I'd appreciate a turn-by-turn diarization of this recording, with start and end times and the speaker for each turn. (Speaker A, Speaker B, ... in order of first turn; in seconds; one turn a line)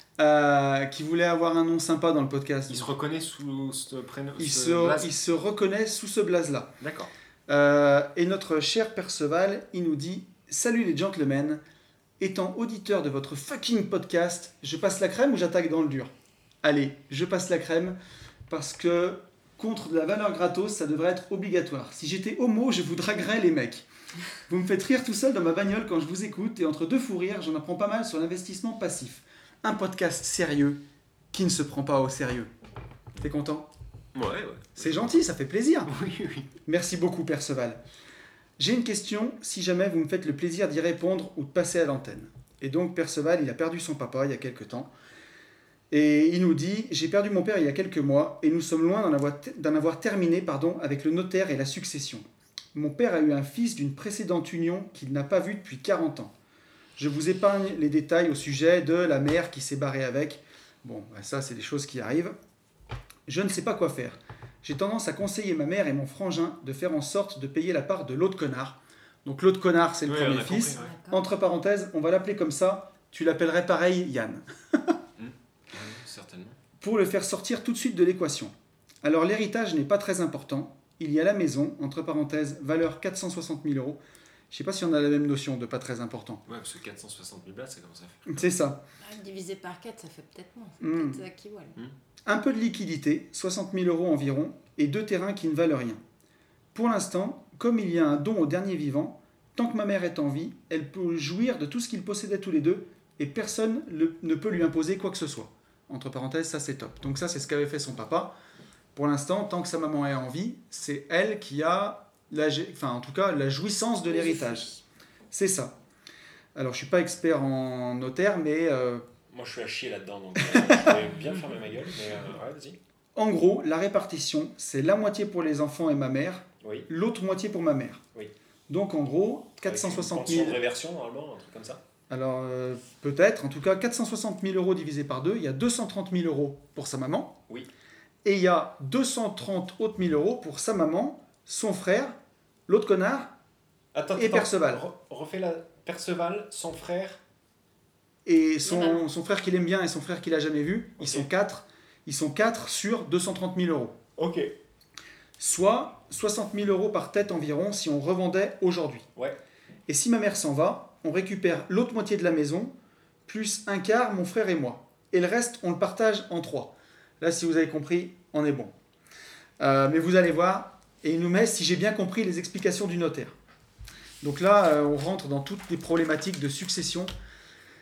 Speaker A: 0.2-2.9
Speaker B: 2.7-5.1
Speaker A: 4.4-6.8
Speaker B: 6.8-7.1
Speaker A: 7.5-11.6
Speaker A: 12.2-16.1
Speaker A: 16.6-18.0
Speaker A: 18.5-23.9
Speaker A: 24.5-32.5
Speaker A: 33.1-33.7
Speaker B: 34.1-35.2
Speaker A: 34.8-35.9
Speaker B: 35.9-36.5
Speaker A: 36.6-37.8
Speaker A: 38.6-44.9
Speaker A: 45.9-56.3
Speaker A: 57.0-62.4
Speaker A: 63.3-75.0
Speaker B: 70.0-70.9
Speaker C: 70.7-71.2
Speaker B: 75.2-76.6
Speaker A: 76.8-84.0
Speaker A: 84.5-86.4
Speaker B: 86.5-88.4
Speaker A: 88.3-88.8
Speaker C: 89.0-91.8
Speaker A: 90.8-91.2
Speaker A: 92.2-96.0
Speaker A: 96.7-108.3
Speaker A: 108.9-114.7
Speaker C: 114.1-114.8
Speaker A: 115.3-115.7
Speaker A: 116.5-119.0
Speaker B: 119.3-122.8
Speaker A: 120.4-121.1
Speaker A: 123.1-128.0
Speaker B: 126.6-126.9
Speaker A: 128.7-130.6
Speaker B: 129.7-131.8
Speaker A: 132.1-137.4
Speaker A: 138.2-142.2
Speaker A: 142.7-143.3
Speaker B: 143.9-147.2
Speaker A: 144.2-144.8
Speaker A: 148.2-154.0
Speaker C: 148.6-149.0
Speaker B: 151.0-151.2
Speaker B: 154.2-154.5
Speaker A: 155.4-159.1
Speaker A: 159.9-162.7
Speaker A: 163.2-168.7
Speaker A: 169.6-173.3
Speaker A: 174.2-177.1